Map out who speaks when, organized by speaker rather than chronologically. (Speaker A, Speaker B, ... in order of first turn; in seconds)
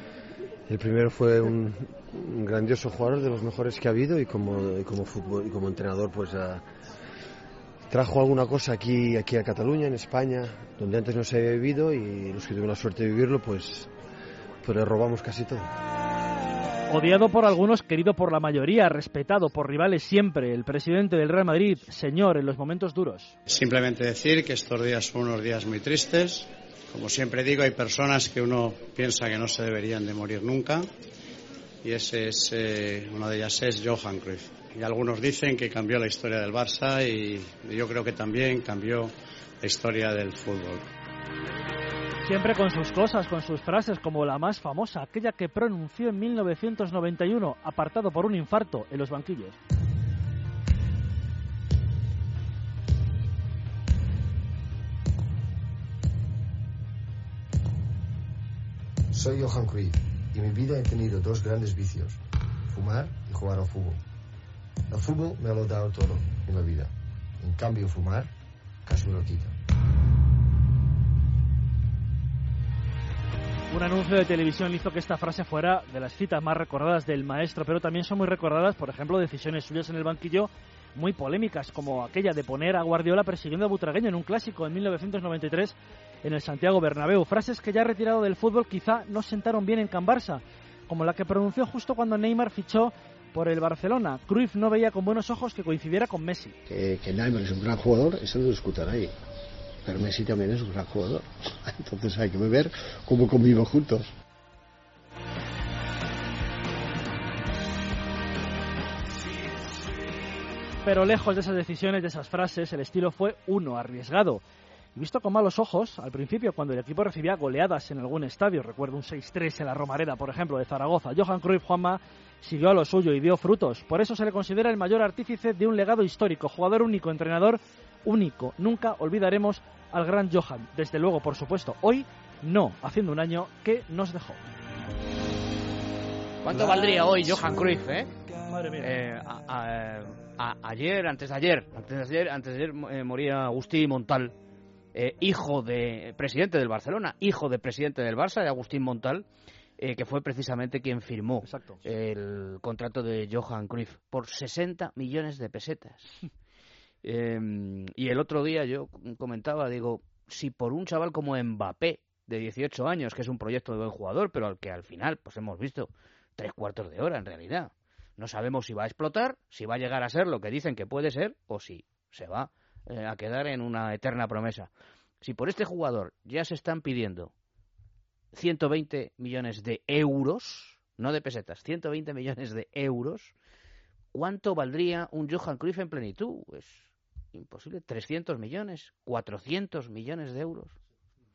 Speaker A: 0.7-6.6, 7.9-13.8, 14.7-15.6
Speaker B: 16.9-23.4, 42.2-49.6, 73.7-96.5, 110.8-114.4, 115.0-134.4, 138.5-138.9, 151.4-151.8
Speaker C: 23.5-30.9, 31.8-40.9
Speaker D: 59.1-64.0, 64.9-68.3, 68.8-69.5
Speaker E: 96.7-99.1, 99.8-104.1
Speaker F: 136.4-138.1, 138.8-144.3, 144.9-149.2, 149.8-156.1, 157.0-174.7, 175.2-177.3, 178.3-183.3, 184.1-190.8